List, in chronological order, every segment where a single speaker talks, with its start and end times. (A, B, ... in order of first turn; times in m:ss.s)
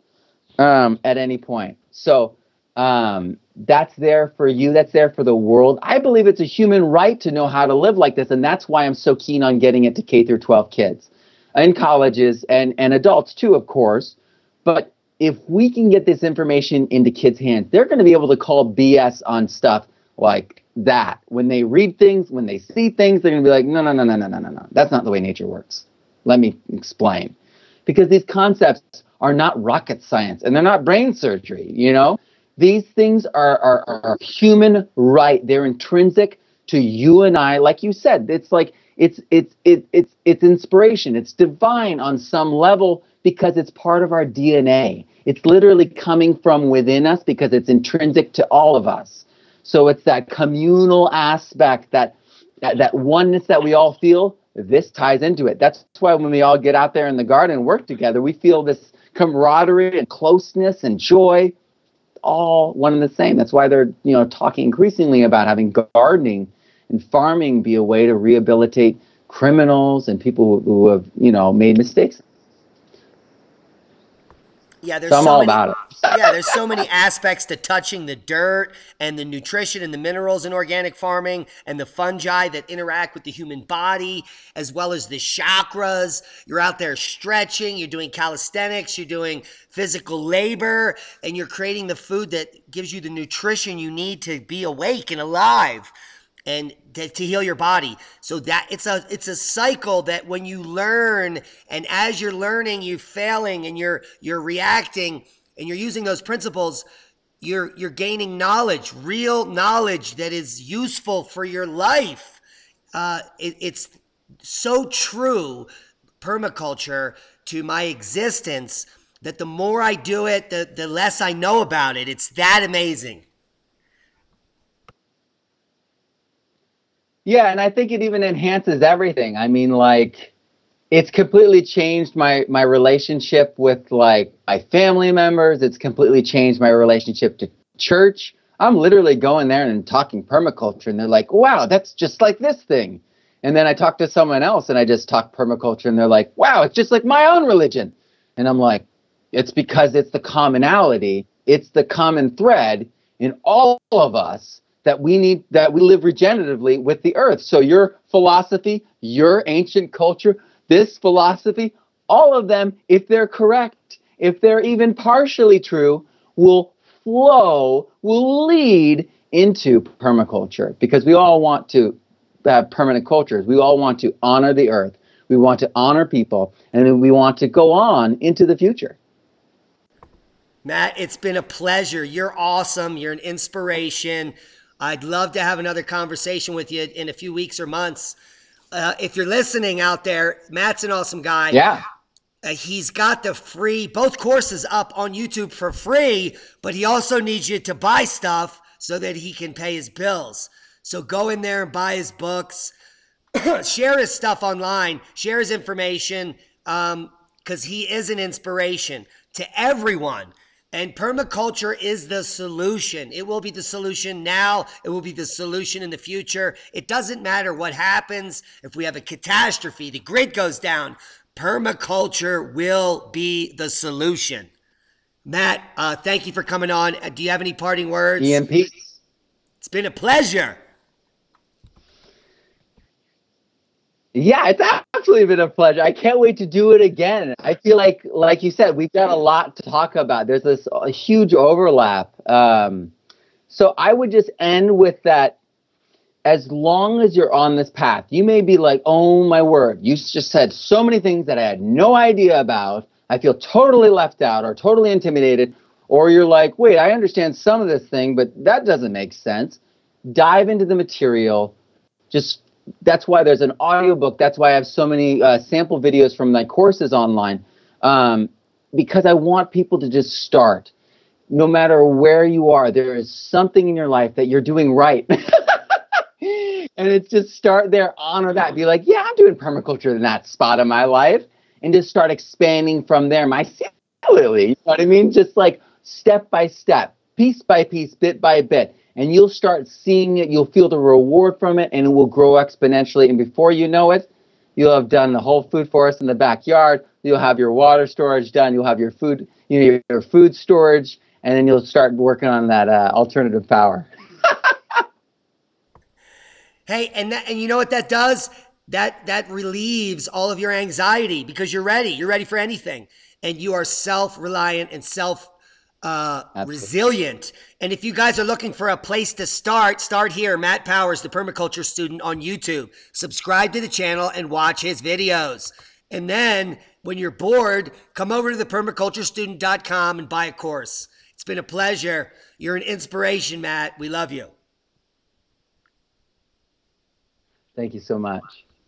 0:00.6-0:27.3 A
0:27.8-1:01.5 A
1:02.2-1:12.2 A
1:14.8-1:35.9 B
1:15.1-1:16.6 A
1:36.5-1:46.8 B
1:47.4-1:52.4 B
1:52.9-1:55.7 B
1:56.2-2:03.2 B
2:07.2-2:10.3 A
2:10.9-2:59.0 A
3:00.6-3:08.2 B
3:08.7-3:11.6 B
3:11.5-3:11.8 A
3:12.4-3:22.7 B
3:23.4-3:44.5 B
3:45.2-3:48.4 B
3:48.2-3:49.0 A
3:49.6-3:50.6 B
3:54.1-4:02.9 A
4:03.5-4:05.4 A
4:06.2-4:21.5 A
4:22.1-4:30.7 A
4:31.3-5:04.8 A
5:06.7-5:15.3 B
5:15.8-5:34.3 B
5:16.4-5:16.7 A
5:37.6-5:38.4 A